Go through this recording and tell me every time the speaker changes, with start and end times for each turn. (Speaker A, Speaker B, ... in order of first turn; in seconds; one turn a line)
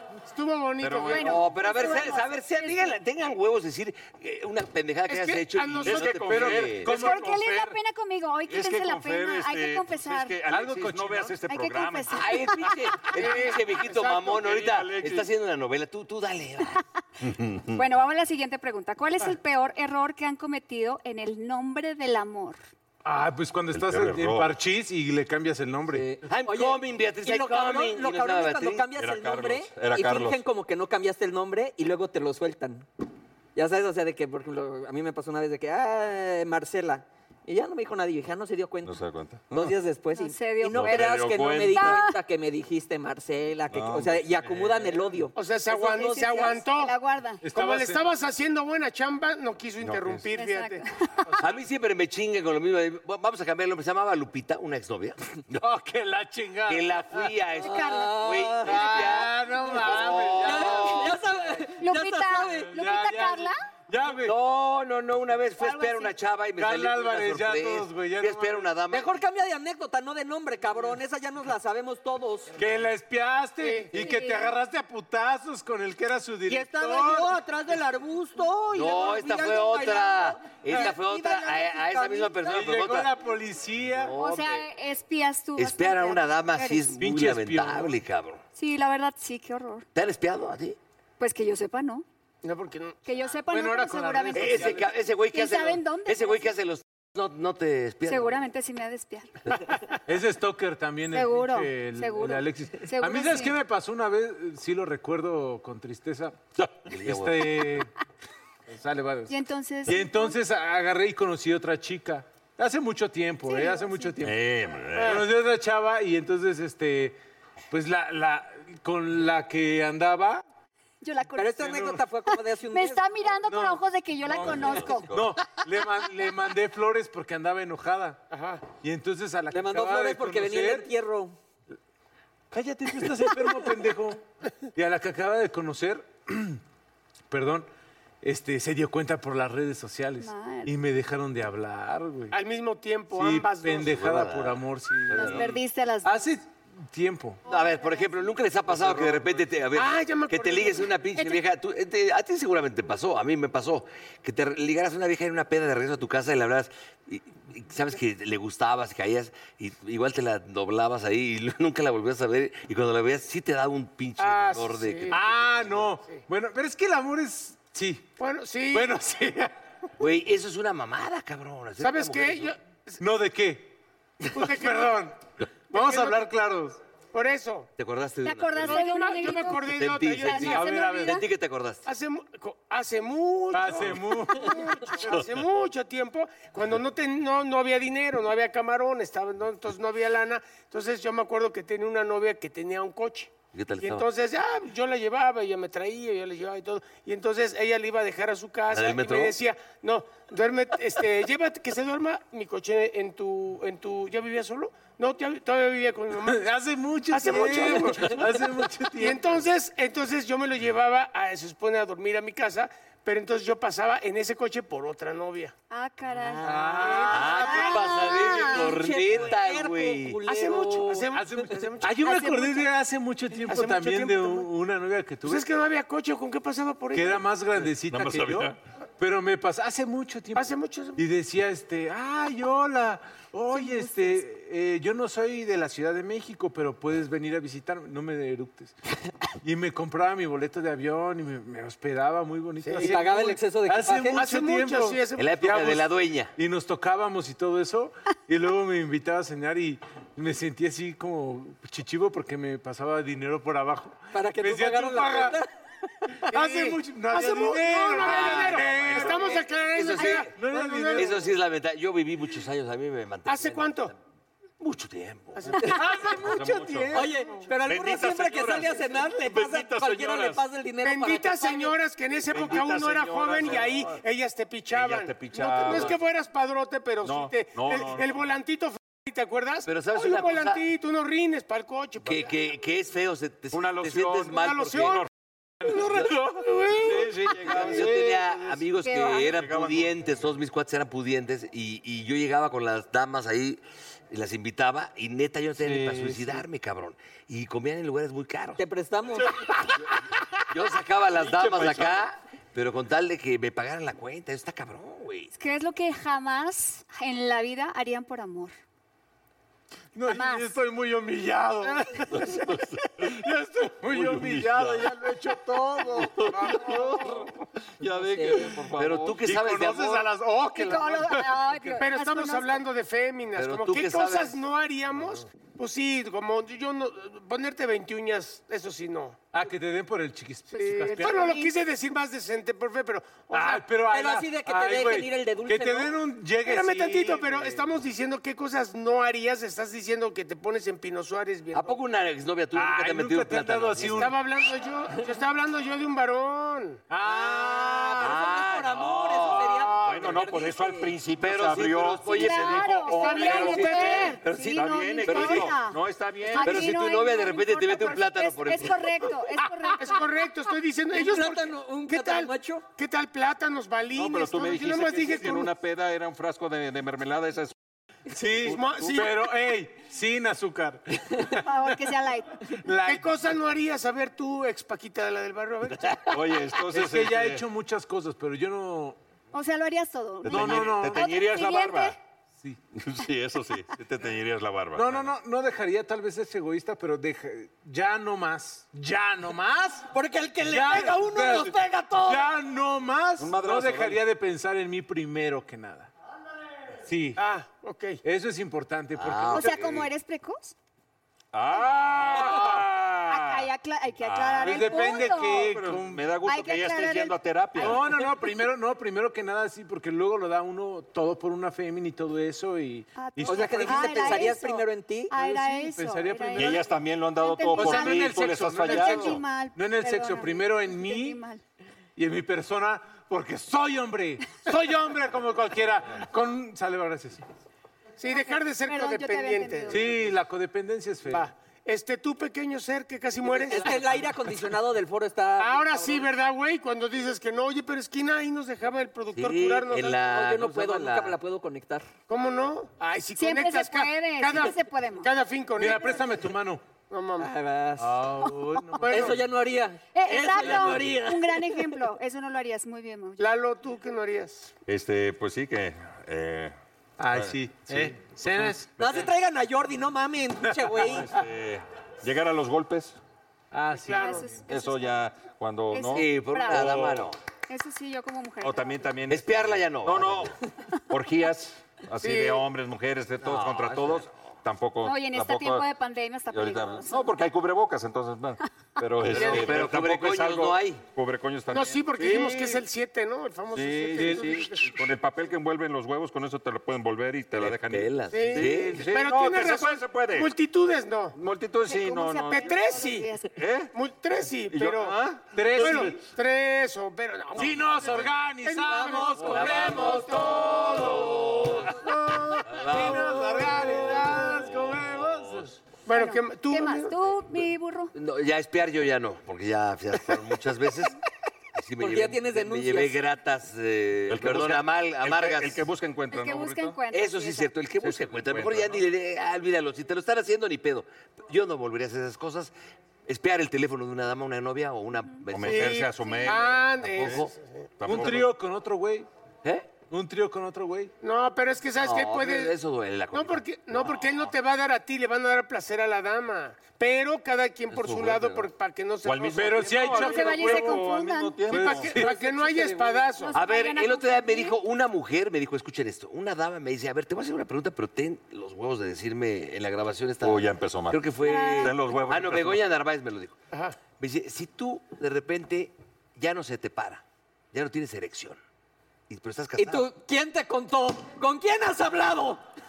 Speaker A: 0.3-1.4
Speaker B: 0.8-1.5
Speaker C: 1.0-2.8
Speaker D: 1.1-7.0
Speaker A: 5.1-6.2
Speaker B: 5.8-7.7
Speaker E: 6.3-7.7
Speaker C: 6.8-10.4
Speaker B: 8.5-12.4
Speaker E: 10.4-11.4
Speaker C: 11.5-13.3
Speaker D: 12.1-16.8
Speaker A: 13.1-14.4
Speaker B: 14.3-15.3
Speaker B: 17.2-17.8
Speaker C: 17.8-22.6
Speaker E: 23.1-26.1
Speaker B: 23.7-24.6
Speaker F: 25.9-32.9
Speaker D: 26.3-28.9
Speaker B: 29.0-30.4
Speaker F: 33.6-39.0
Speaker B: 38.8-39.7
Speaker F: 39.5-46.6
Speaker C: 40.1-41.1
Speaker B: 40.7-42.0
Speaker C: 41.7-42.2
Speaker B: 43.7-44.9
Speaker A: 45.3-46.9
Speaker C: 45.9-47.4
Speaker E: 47.4-48.1
Speaker A: 47.5-50.9
Speaker B: 49.8-50.3
Speaker C: 50.4-51.3
Speaker D: 51.4-55.6
Speaker E: 55.6-57.4
Speaker D: 56.7-59.3
Speaker C: 57.6-60.6
Speaker F: 57.6-59.1
Speaker E: 58.6-61.3
Speaker F: 59.7-62.7
Speaker C: 61.8-63.6
Speaker E: 62.5-64.4
Speaker D: 64.2-69.2
Speaker C: 65.6-66.1
Speaker E: 66.6-68.7
Speaker F: 68.9-72.6
Speaker E: 72.6-77.4
Speaker A: 73.6-73.9
Speaker C: 73.9-74.6
Speaker F: 76.5-82.5
Speaker D: 78.7-83.1
Speaker E: 82.4-84.2
Speaker D: 83.9-84.7
Speaker C: 84.1-86.9
Speaker D: 85.6-88.4
Speaker E: 86.9-87.9
Speaker C: 88.6-89.9
Speaker D: 90.0-90.8
Speaker C: 91.2-92.0
Speaker A: 92.4-93.2
Speaker C: 93.0-96.5
Speaker E: 93.3-95.0
Speaker D: 94.3-98.4
Speaker C: 98.1-99.3
Speaker E: 100.1-106.4
Speaker C: 101.1-103.6
Speaker D: 106.6-107.7
Speaker E: 107.0-107.9
Speaker E: 108.7-114.5
Speaker C: 109.3-110.4
Speaker C: 113.5-114.2
Speaker B: 114.2-115.3
Speaker A: 115.0-115.3
Speaker E: 115.0-117.2
Speaker E: 117.7-120.4
Speaker C: 121.0-121.7
Speaker F: 121.4-123.0
Speaker E: 121.6-122.0
Speaker C: 122.3-125.2
Speaker E: 123.4-130.9
Speaker A: 128.3-128.7
Speaker F: 129.5-131.3
Speaker E: 132.5-136.6
Speaker E: 137.3-137.7
Speaker E: 138.2-142.4
Speaker C: 140.2-140.8
Speaker A: 142.3-143.9
Speaker E: 143.1-147.4
Speaker D: 143.8-145.5
Speaker C: 145.1-146.3
Speaker D: 147.5-165.2
Speaker C: 147.5-148.2
Speaker A: 149.7-151.0
Speaker C: 151.2-151.4
Speaker A: 164.2-166.3
Speaker E: 165.1-168.1
Speaker A: 168.2-168.9
Speaker E: 168.7-169.5
Speaker D: 170.0-172.6
Speaker A: 171.8-173.0
Speaker E: 173.0-173.8
Speaker A: 174.3-175.1
Speaker E: 174.3-175.2
Speaker A: 175.7-176.3
Speaker E: 175.7-176.8
Speaker A: 177.1-177.7
Speaker D: 177.8-178.9
Speaker C: 178.2-181.3
Speaker A: 178.6-180.6
Speaker D: 179.7-181.9
Speaker E: 180.4-181.2
Speaker A: 181.9-206.4
Speaker E: 183.5-184.8
Speaker D: 193.5-194.1
Speaker D: 198.7-199.4
Speaker E: 206.2-209.4
Speaker A: 207.1-208.3
Speaker A: 209.0-215.5
Speaker C: 215.7-218.7
Speaker F: 216.2-221.1
Speaker E: 216.4-219.3
Speaker D: 217.1-220.2
Speaker A: 220.3-222.4
Speaker E: 221.1-225.5
Speaker C: 222.1-222.7
Speaker A: 223.4-224.5
Speaker A: 225.2-227.2
Speaker E: 226.9-238.7
Speaker B: 227.9-228.6
Speaker A: 230.3-231.0
Speaker C: 233.5-234.2
Speaker E: 239.4-245.8
Speaker A: 242.6-242.9
Speaker F: 242.8-244.2
Speaker A: 244.1-245.7
Speaker D: 245.2-246.3
Speaker E: 246.4-255.4
Speaker F: 254.1-255.5
Speaker E: 256.3-261.3
Speaker A: 256.3-261.2
Speaker D: 258.0-259.1
Speaker D: 259.7-260.3
Speaker D: 260.9-264.0
Speaker A: 263.3-263.9
Speaker D: 264.6-265.6
Speaker A: 265.4-266.3
Speaker E: 265.6-267.5
Speaker B: 266.2-267.0
Speaker F: 266.9-271.7
Speaker B: 267.6-270.4
Speaker A: 270.8-282.3
Speaker B: 272.3-274.0
Speaker B: 274.7-276.0
Speaker B: 277.0-278.2
Speaker D: 279.7-280.6
Speaker D: 282.0-285.0
Speaker B: 283.5-285.1
Speaker A: 284.4-285.1
Speaker A: 285.6-287.3
Speaker E: 285.6-286.9
Speaker B: 286.8-288.0
Speaker E: 287.4-288.6
Speaker D: 287.5-298.6
Speaker C: 288.8-289.4
Speaker B: 289.2-290.3
Speaker B: 295.6-296.2
Speaker F: 298.6-299.4
Speaker D: 300.5-305.3
Speaker E: 301.4-301.8
Speaker B: 301.5-301.9
Speaker C: 305.4-308.6
Speaker E: 309.9-312.4
Speaker C: 310.1-310.5
Speaker B: 312.1-313.1
Speaker E: 313.0-317.2
Speaker B: 313.9-314.9
Speaker B: 316.0-319.2
Speaker F: 317.9-318.5
Speaker D: 318.8-320.1
Speaker E: 319.2-321.8
Speaker C: 320.5-322.6
Speaker A: 321.8-329.2
Speaker D: 323.4-324.4
Speaker E: 329.3-331.4
Speaker A: 330.6-333.6
Speaker C: 330.8-331.5
Speaker E: 333.3-337.7
Speaker F: 333.9-335.9
Speaker A: 336.4-341.8
Speaker D: 341.5-344.1
Speaker E: 342.5-344.2
Speaker A: 343.9-346.8
Speaker E: 346.9-348.4
Speaker F: 347.0-350.9
Speaker D: 348.0-349.7
Speaker E: 349.5-350.2
Speaker B: 349.8-356.7
Speaker D: 351.2-355.6
Speaker C: 352.0-360.3
Speaker A: 353.0-354.1
Speaker D: 356.4-359.1
Speaker A: 359.8-365.5
Speaker F: 360.9-362.6
Speaker B: 363.9-367.5
Speaker E: 368.1-371.9
Speaker B: 368.4-369.1
Speaker A: 368.4-369.1
Speaker C: 371.4-372.6
Speaker E: 372.5-373.4
Speaker A: 372.9-376.1
Speaker B: 376.1-377.4
Speaker E: 376.7-379.0
Speaker C: 379.3-382.0
Speaker B: 380.2-382.0
Speaker E: 380.2-381.1
Speaker B: 382.8-385.1
Speaker E: 384.8-389.9
Speaker F: 389.9-392.3
Speaker E: 390.4-395.9
Speaker B: 393.2-394.0
Speaker E: 396.9-397.2
Speaker A: 397.2-398.0
Speaker E: 398.1-399.7
Speaker D: 398.9-399.9
Speaker C: 399.3-400.5
Speaker B: 401.3-403.5
Speaker C: 401.6-405.5
Speaker B: 404.0-407.9
Speaker E: 404.4-406.1
Speaker C: 406.2-407.7
Speaker E: 407.6-414.4
Speaker C: 412.9-421.4
Speaker F: 413.2-415.1
Speaker E: 415.1-416.7
Speaker B: 416.4-419.2
Speaker E: 417.5-421.2
Speaker E: 422.0-427.2
Speaker A: 428.0-429.8
Speaker C: 428.1-430.0
Speaker E: 429.7-431.3
Speaker A: 431.1-433.9
Speaker F: 433.2-436.1
Speaker A: 435.4-440.0
Speaker D: 439.1-441.2
Speaker F: 440.0-441.9
Speaker A: 442.1-445.9
Speaker C: 443.2-445.1
Speaker E: 445.6-446.6
Speaker A: 446.9-447.3
Speaker F: 447.2-448.1
Speaker E: 447.8-449.2
Speaker A: 448.8-449.2
Speaker F: 448.9-451.8
Speaker C: 449.9-453.3
Speaker A: 453.2-454.5
Speaker B: 454.7-456.6
Speaker E: 457.0-458.7
Speaker B: 457.1-459.1
Speaker F: 458.8-461.1
Speaker E: 460.4-461.0
Speaker B: 460.8-463.0
Speaker E: 463.5-464.3
Speaker C: 463.8-464.9
Speaker B: 464.4-467.1
Speaker C: 465.7-466.8
Speaker D: 465.9-467.2
Speaker C: 467.5-468.9
Speaker B: 468.4-470.4
Speaker D: 469.1-470.3
Speaker B: 470.9-475.7
Speaker A: 472.0-472.4
Speaker D: 473.2-474.1
Speaker C: 474.8-477.1
Speaker B: 476.3-482.5
Speaker D: 479.0-480.8
Speaker A: 481.5-484.8
Speaker E: 482.0-482.6
Speaker B: 483.5-490.3
Speaker E: 483.9-484.5
Speaker D: 487.4-488.9
Speaker A: 488.1-491.2
Speaker B: 491.1-492.6
Speaker C: 491.6-493.3
Speaker A: 492.3-493.1
Speaker B: 493.3-493.7
Speaker A: 493.7-500.9
Speaker B: 494.5-496.0
Speaker E: 495.2-496.1
Speaker E: 497.3-505.6
Speaker F: 499.0-499.4
Speaker D: 499.3-501.7
Speaker A: 501.8-502.4
Speaker D: 502.5-505.5
Speaker A: 505.9-507.0
Speaker C: 505.9-507.9
Speaker D: 507.9-511.0
Speaker D: 511.6-515.6
Speaker F: 511.8-513.0
Speaker B: 514.1-516.8
Speaker C: 516.1-517.5
Speaker D: 516.9-522.5
Speaker B: 517.8-518.9
Speaker D: 523.1-525.9
Speaker B: 525.3-527.2
Speaker A: 525.5-527.7
Speaker C: 526.1-526.3
Speaker D: 527.0-527.3
Speaker B: 527.8-528.3
Speaker E: 527.8-529.1
Speaker D: 529.4-529.7
Speaker E: 529.8-530.9
Speaker A: 531.0-532.5
Speaker D: 531.8-534.0
Speaker A: 533.1-540.6
Speaker D: 537.7-538.5
Speaker B: 539.0-542.0
Speaker E: 539.3-540.9
Speaker C: 540.0-541.5
Speaker E: 541.5-542.2
Speaker A: 541.5-543.4
Speaker F: 542.0-543.0
Speaker C: 543.1-544.6
Speaker D: 543.3-558.4
Speaker B: 550.2-552.6
Speaker C: 551.2-551.8
Speaker A: 553.5-553.8
Speaker D: 559.1-559.9
Speaker F: 559.6-562.4